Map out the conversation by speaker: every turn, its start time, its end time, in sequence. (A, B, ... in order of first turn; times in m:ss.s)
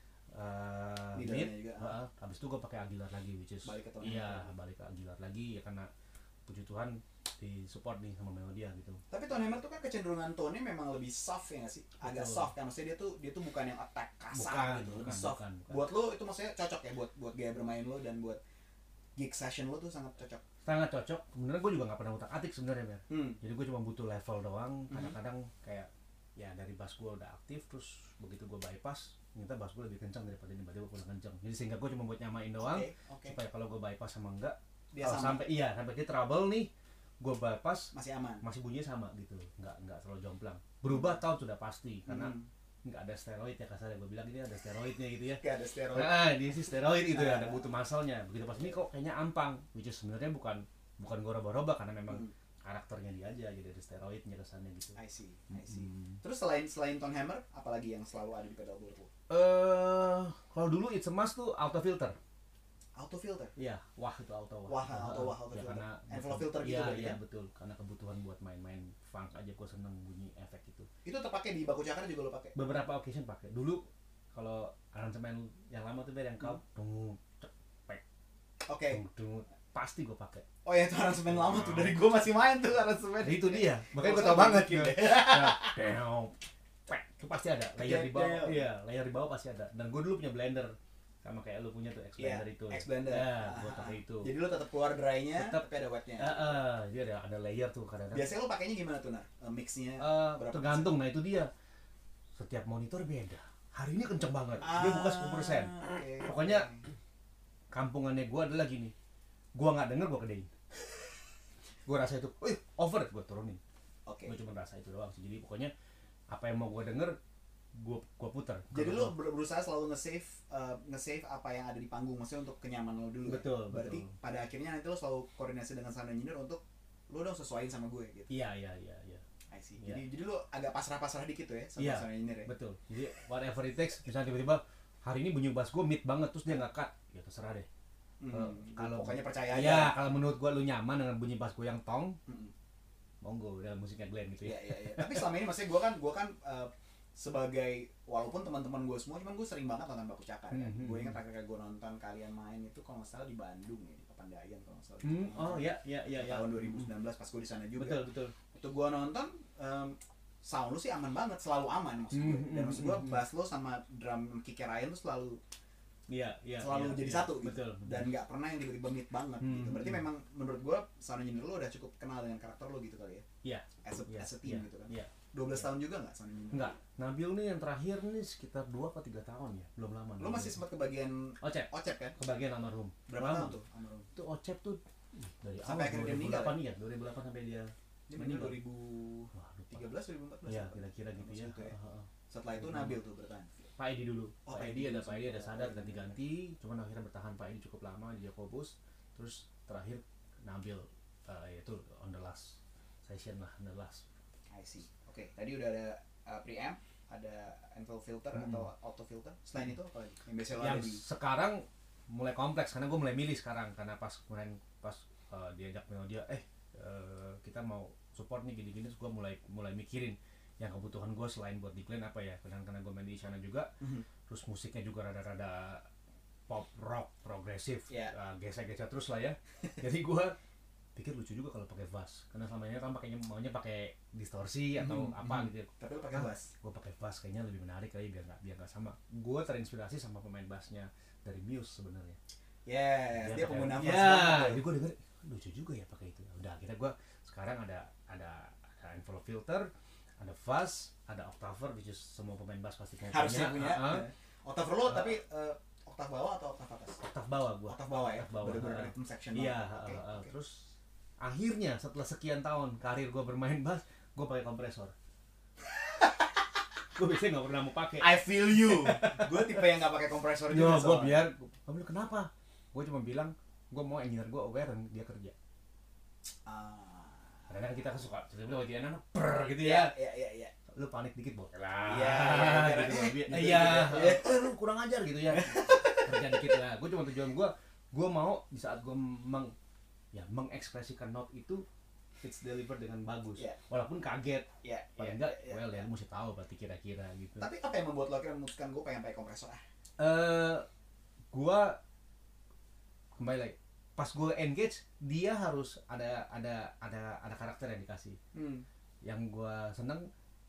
0:00.3-0:05.9 A
0:01.1-0:01.9 B
0:03.6-0:04.5 B
0:06.5-0:09.0 A
0:09.1-0:18.4 B
0:12.0-0:12.5 A
0:14.3-0:15.9 A
0:19.2-0:20.4 B
0:20.6-0:55.0 A
0:23.1-0:23.4 B
0:24.9-0:25.1 B
0:32.6-0:33.4 B
0:34.9-0:35.4 B
0:37.9-0:38.4 B
0:40.9-0:41.2 B
0:42.1-0:42.5 B
0:45.4-0:46.2 B
0:47.1-0:47.6 B
0:55.0-0:59.1 B
0:55.5-0:56.2 A
0:59.3-1:02.2 A
1:02.9-1:03.5 B
1:03.6-1:10.9 A
1:04.7-1:07.2 B
1:11.0-1:12.6 B
1:12.5-1:18.0 A
1:18.6-1:19.0 B
1:18.9-1:20.4 A
1:20.6-1:25.8 B
1:21.3-1:22.0 A
1:23.2-1:34.3 A
1:27.8-1:28.7 B
1:32.2-1:36.6 B
1:35.4-1:35.6 A
1:36.2-1:38.3 A
1:38.1-1:40.9 B
1:40.0-1:41.5 A
1:42.4-1:46.7 A
1:44.6-1:46.8 B
1:47.7-1:48.9 A
1:49.5-1:50.5 A
1:51.8-1:53.6 A
1:54.0-1:54.4 B
1:54.2-1:55.7 A
1:56.3-1:57.2 A
1:57.7-1:59.2 A
1:58.7-2:08.3 B
2:03.2-2:04.1 A
2:08.3-2:09.2 A
2:09.5-2:12.5 B
2:11.8-2:17.7 A
2:18.2-2:20.0 B
2:18.3-2:22.2 A
2:22.3-2:22.5 B
2:23.2-2:25.3 A
2:24.4-2:38.0 B
2:30.5-2:31.2 A
2:35.0-2:36.9 A
2:37.8-2:38.3 A
2:38.5-2:45.4 B
2:42.1-2:43.2 A
2:46.1-2:48.1 A
2:46.6-2:53.2 B
2:49.4-2:50.0 A
2:53.4-2:55.1 A
2:53.8-2:56.7 B
2:56.5-3:00.6 A
3:00.2-3:02.2 B
3:01.4-3:03.6 A
3:03.1-3:04.1 B
3:04.1-3:08.6 A
3:05.6-3:06.6 B
3:08.1-3:11.7 B
3:09.3-3:09.8 A
3:10.4-3:13.0 A
3:12.3-3:13.6 B
3:13.8-3:24.0 A
3:14.4-3:16.2 B
3:24.5-3:31.0 B
3:28.3-3:28.6 A
3:30.6-3:43.7 A
3:44.3-3:45.9 A
3:46.5-3:50.4 A
3:47.9-3:48.1 B
3:51.0-4:02.2 A
3:54.8-3:56.5 B
4:02.6-4:04.6 B
4:03.1-4:14.1 A
4:13.1-4:17.0 B
4:17.0-4:24.9 A
4:17.7-4:20.3 B
4:26.9-4:29.4 A
4:28.0-4:31.2 B
4:30.5-4:35.3 A
4:36.4-4:37.4 B
4:37.5-4:39.9 A
4:39.6-4:40.5 B
4:40.7-4:49.5 A
4:41.8-4:44.5 B
4:45.3-4:46.5 B
4:50.1-4:51.6 A
4:52.2-4:57.5 A
4:54.6-4:55.8 B
4:57.4-4:59.6 B
5:00.0-5:00.7 A
5:01.3-5:01.8 A
5:03.2-5:08.2 A
5:08.3-5:08.6 B
5:09.0-5:10.1 A